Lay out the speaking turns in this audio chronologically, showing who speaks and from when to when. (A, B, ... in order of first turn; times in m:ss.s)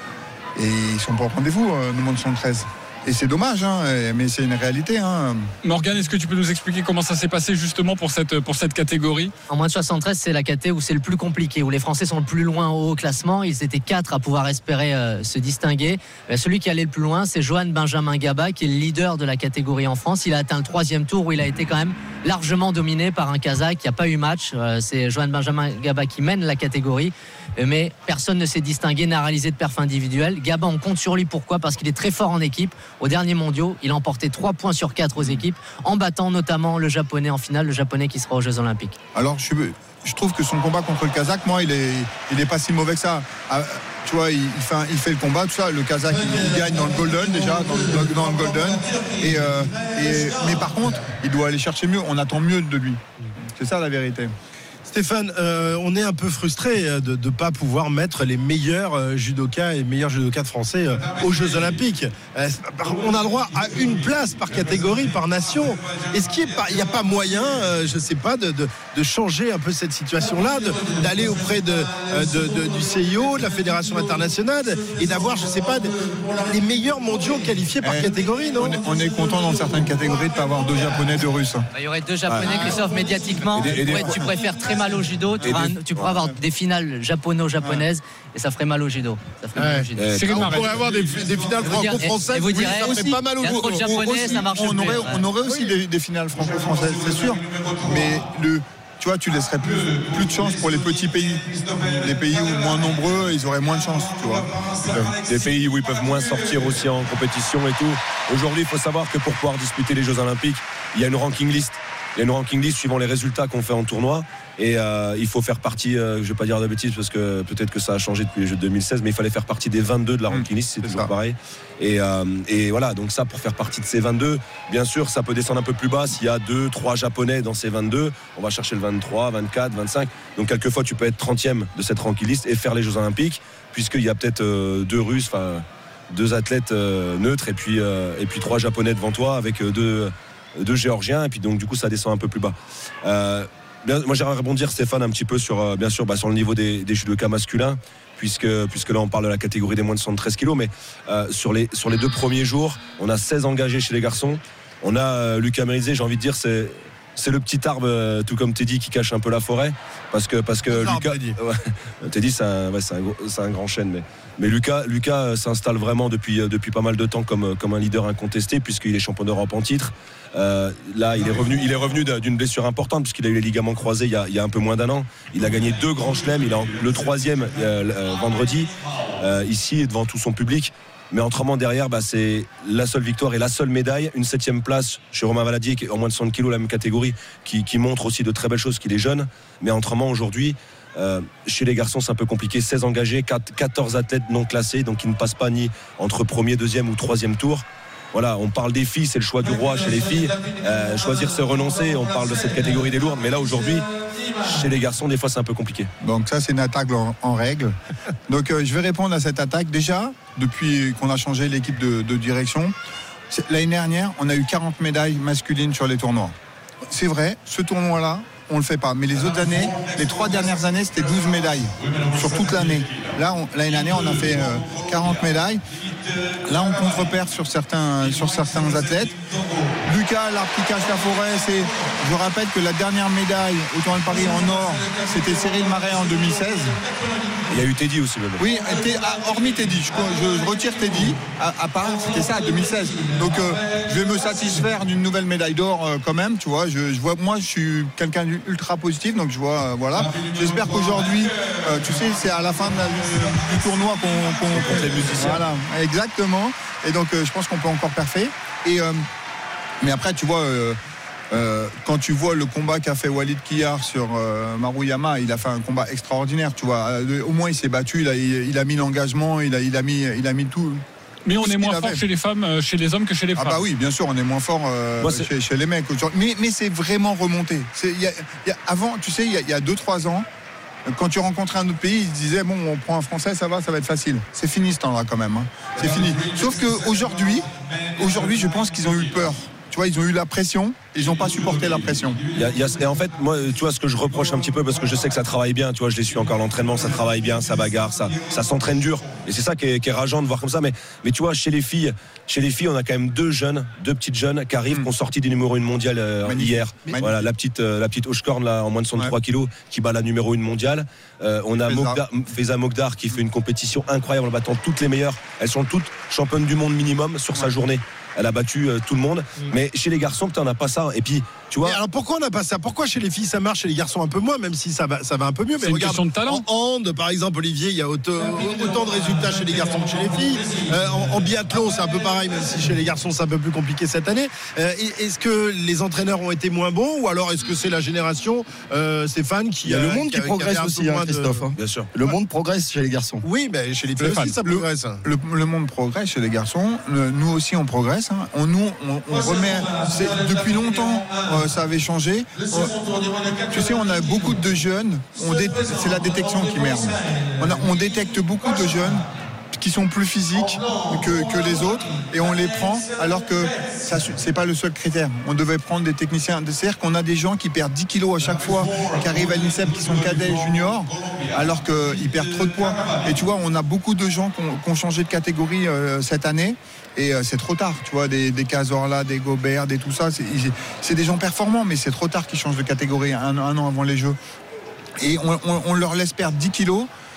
0:00.6-0:05.5 A
0:05.6-0:09.3 B
0:09.5-0:39.0 C
0:39.2-0:54.3 A
0:54.9-1:18.8 D
1:17.8-1:21.7 A
1:21.7-1:30.1 C
1:22.3-1:22.8 E
1:23.6-1:24.2 E
1:23.7-1:24.3 A
1:25.4-1:26.2 E
1:27.6-1:27.9 A
1:29.6-1:34.0 D
1:30.0-1:30.6 E
1:30.1-1:30.8 B
1:31.6-1:35.3 C
1:33.7-1:45.0 A
1:45.1-3:23.9 E
2:00.3-2:01.1 A
2:40.7-2:41.4 D
3:24.4-3:25.9 E
3:26.0-3:27.7 A
3:28.3-3:32.8 A
3:33.3-3:36.4 A
3:36.9-3:45.6 A
3:46.5-3:49.2 A
3:49.8-3:56.8 A
3:57.5-3:58.4 E
3:58.4-4:19.0 A
4:14.5-4:15.4 E
4:19.8-4:20.8 A
4:21.3-4:30.8 A
4:31.3-4:33.6 B
4:31.4-4:32.0 A
4:33.4-4:40.3 A
4:35.0-4:35.3 E
4:40.9-4:52.2 A
4:52.3-5:21.8 E
5:06.2-5:07.3 A
5:11.7-5:12.0 A
5:21.6-5:41.4 D
5:25.6-5:26.5 B
5:39.6-5:43.2 F
5:41.6-5:41.9 E
5:43.2-5:45.0 D
5:44.0-5:44.3 B
5:44.2-5:52.8 A
5:53.5-6:24.2 A
6:25.0-6:26.9 A